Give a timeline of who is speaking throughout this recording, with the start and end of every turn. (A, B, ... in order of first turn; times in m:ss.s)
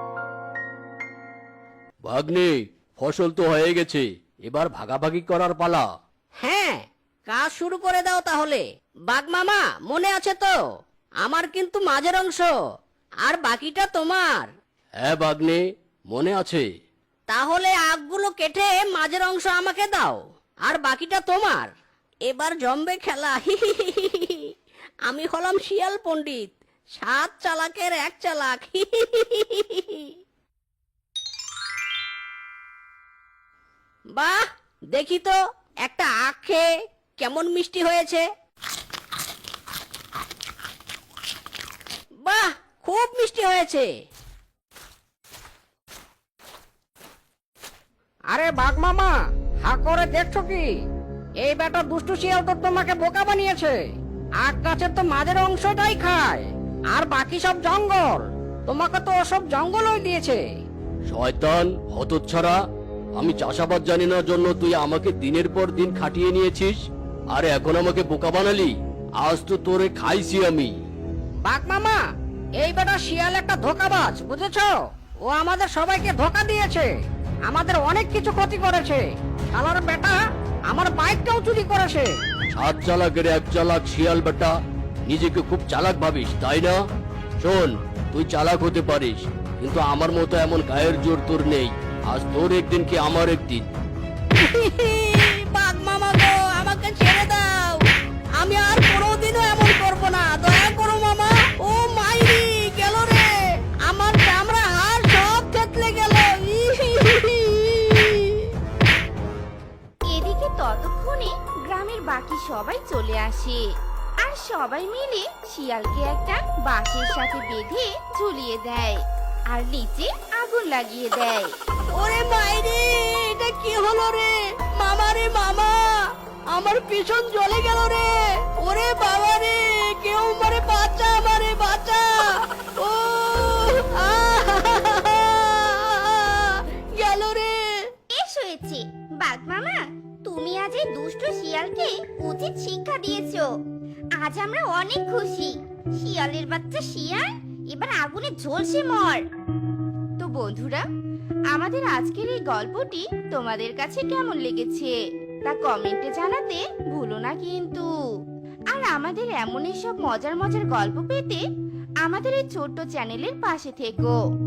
0:02.0-0:05.9 A
0:06.4-0:10.6 B
0:11.2-0:12.5 B
0:13.2-0:14.5 B
0:15.0-0:16.7 A
0:17.3-0:21.7 B
0:22.3-0:24.5 B
0:25.1-0:30.1 B
0:34.9-0:36.7 B
0:37.2-0:38.2 B
0:42.2-0:43.9 B
0:48.3-0:49.1 C
0:49.6-0:50.7 C
0:51.4-0:53.8 C
0:54.4-1:00.4 C
1:01.1-1:02.6 A
1:03.2-1:10.7 A
1:11.4-1:12.0 C
1:12.6-1:14.7 C
1:15.3-1:16.9 C
1:17.5-1:19.0 C
1:19.5-1:20.2 C
1:20.7-1:22.1 C
1:22.5-1:26.8 A
1:27.4-1:33.7 A
1:34.3-1:37.8 B
1:38.4-1:43.3 B
1:43.8-1:48.5 B
1:50.1-1:53.6 D
1:54.2-1:59.0 D
1:59.5-2:01.5 D
2:01.9-2:17.9 B
2:18.1-2:23.4 E
2:24.2-2:29.2 E
2:30.2-2:30.8 D
2:31.5-2:34.9 D
2:35.4-2:37.9 D
2:38.7-2:41.4 D
2:42.0-2:44.1 D